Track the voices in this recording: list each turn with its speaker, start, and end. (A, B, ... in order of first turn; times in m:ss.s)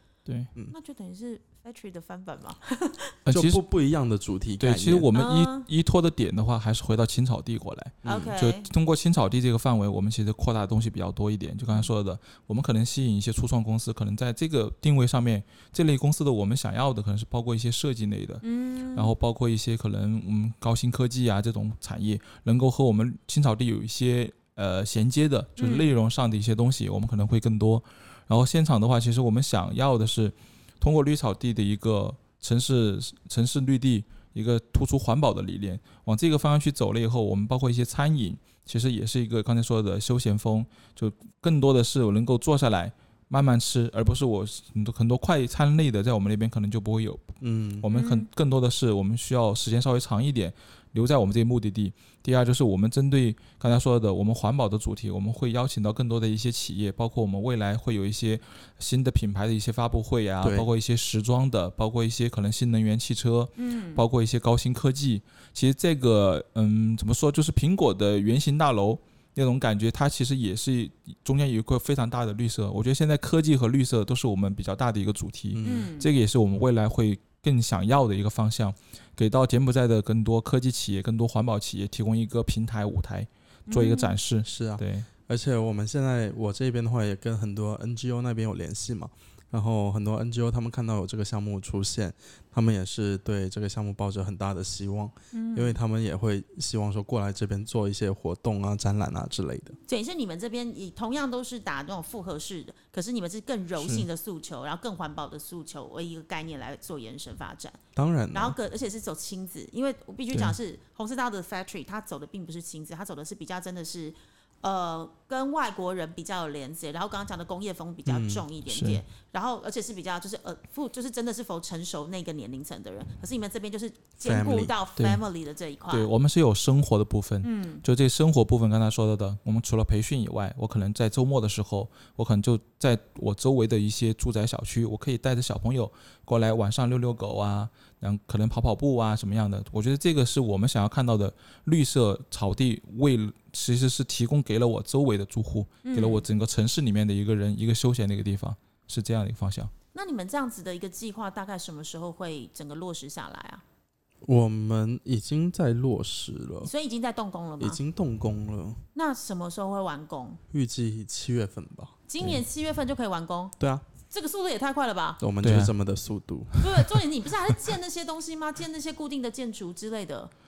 0:00.3-0:00.5 A
0:00.7-0:03.2 B
0:03.2-0:03.6 A
0:03.3-0:05.1 C
0:04.6-0:18.4 A
0:05.1-0:05.7 B
0:08.0-0:08.3 C
0:08.0-0:08.7 B
0:18.4-0:19.1 B
0:18.9-1:25.1 A
0:25.6-0:25.9 B
0:47.4-0:47.9 C
0:47.9-0:48.3 B
1:00.4-1:00.7 C
1:03.6-1:04.0 B
1:15.5-1:15.9 C
1:15.6-1:16.1 B
1:23.7-1:24.2 B
1:24.5-1:39.8 C
1:35.3-1:35.8 B
1:39.9-1:47.8 B
1:43.8-1:44.1 A
1:48.0-1:48.6 C
1:48.3-2:06.1 B
1:58.1-1:58.5 C
1:58.7-1:59.0 A
2:04.2-2:04.7 C
2:05.9-2:29.7 A
2:07.4-2:07.8 B
2:25.8-2:26.2 B
2:29.9-2:33.6 B
2:34.2-2:36.7 C
2:36.6-2:37.8 B
2:37.6-2:38.8 C
2:39.0-2:40.4 B
2:40.5-2:42.0 C
2:42.1-2:43.5 B
2:44.1-2:45.2 B
2:45.2-2:46.6 C
2:45.4-2:45.7 A
2:46.6-2:50.3 B